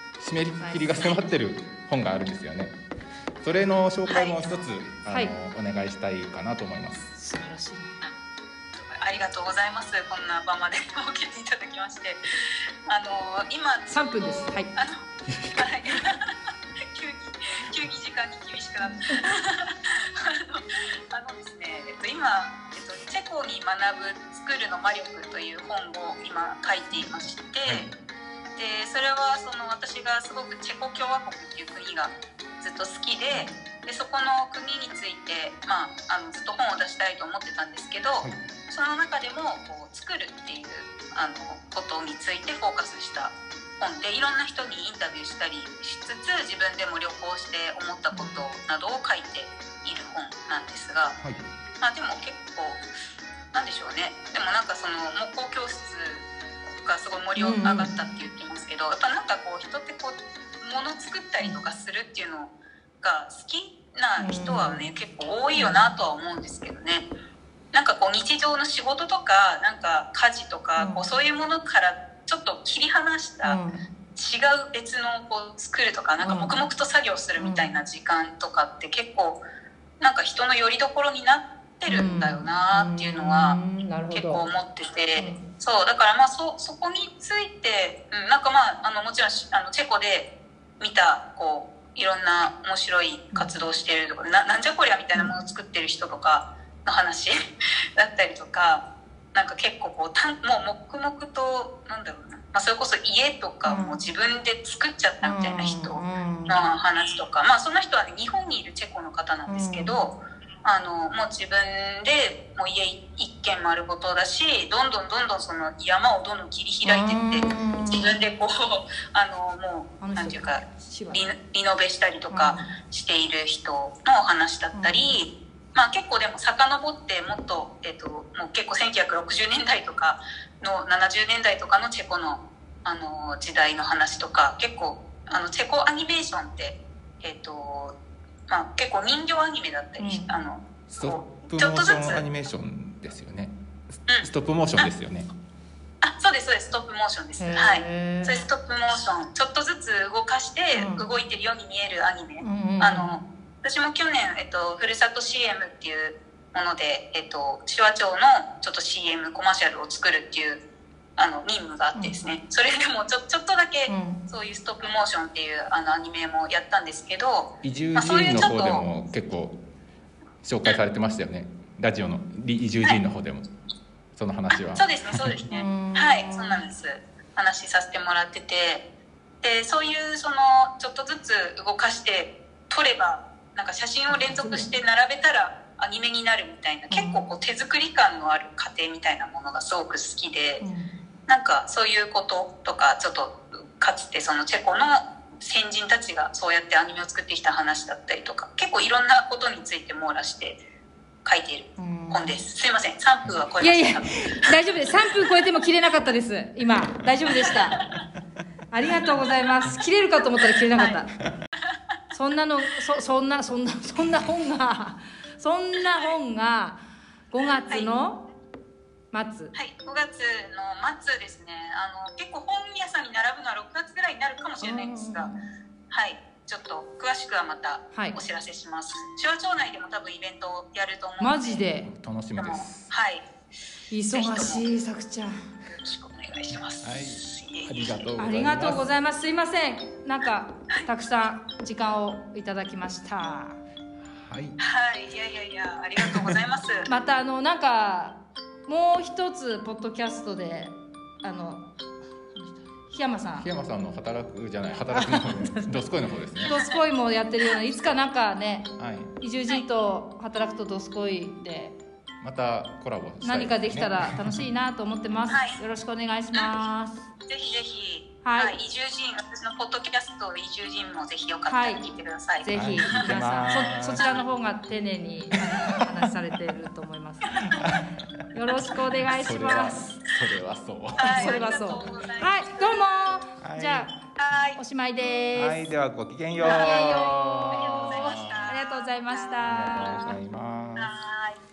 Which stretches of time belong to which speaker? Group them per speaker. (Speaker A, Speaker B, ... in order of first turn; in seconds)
Speaker A: 0.2-2.8, 3.4-7.0, 140.9-145.3, 167.6-169.6, 170.4-173.5, 174.1-175.3, 231.8-232.9, 236.8-238.9, 244.0-244.6, 253.4-256.6, 258.8-259.1, 262.2-264.4, 272.5-274.1, 279.1-281.4, 283.4-283.9, 285.3-288.5, 289.4-290.9
Speaker B: 0.6-1.0, 5.1-5.3, 7.1-7.9, 13.9-14.7, 48.1-48.5, 57.4-58.0, 64.2-64.9, 65.5-65.9, 70.8-71.1, 73.4-73.8, 76.2-76.6, 77.4-77.7, 81.8-84.4, 85.2-85.4, 103.6-104.0, 105.2-106.6, 109.5-110.0, 116.8-118.2, 120.0-121.2, 122.3-122.6, 124.7-125.2, 140.0-140.3, 147.4-148.4, 150.7-151.1, 152.4-153.1, 163.9-164.2, 175.5-176.6, 184.1-184.7, 186.9-187.3, 190.6-190.9, 201.8-202.3, 203.6-207.8, 208.7-211.1, 212.1-218.2, 219.1-219.5, 224.6-225.4, 231.2-231.9, 233.9-235.3, 238.2-243.6, 246.9-251.7, 252.3-253.5, 254.9-255.7, 256.5-258.7, 259.2-261.8, 263.2-267.0, 268.2-268.6, 271.4-271.9, 272.4-277.6, 278.3-280.0, 281.0-283.9, 284.6-285.7, 286.4-290.2
Speaker C: 4.1-4.5, 8.8-12.2, 12.8-16.3, 16.9-27.9, 28.6-51.2, 51.8-52.8, 53.5-67.1, 67.7-73.6, 74.1-79.4, 80.0-83.6, 84.1-90.3, 90.8-97.3, 98.0-137.9, 138.5-142.2, 144.1-144.9, 146.0-160.6, 161.2-168.9, 174.5-178.8, 179.4-190.6, 191.3-200.6, 201.2-205.2, 207.3-207.9, 210.8-211.0, 215.8-216.2, 219.5-225.3, 225.9-231.6, 232.4-233.3, 234.1-234.6, 235.7-237.9, 244.6-246.9, 265.3-265.6, 266.3-266.6, 267.3-274.2, 281.0-283.2, 284.1-284.6, 286.4-286.8, 287.5-289.8, 290.8-291.4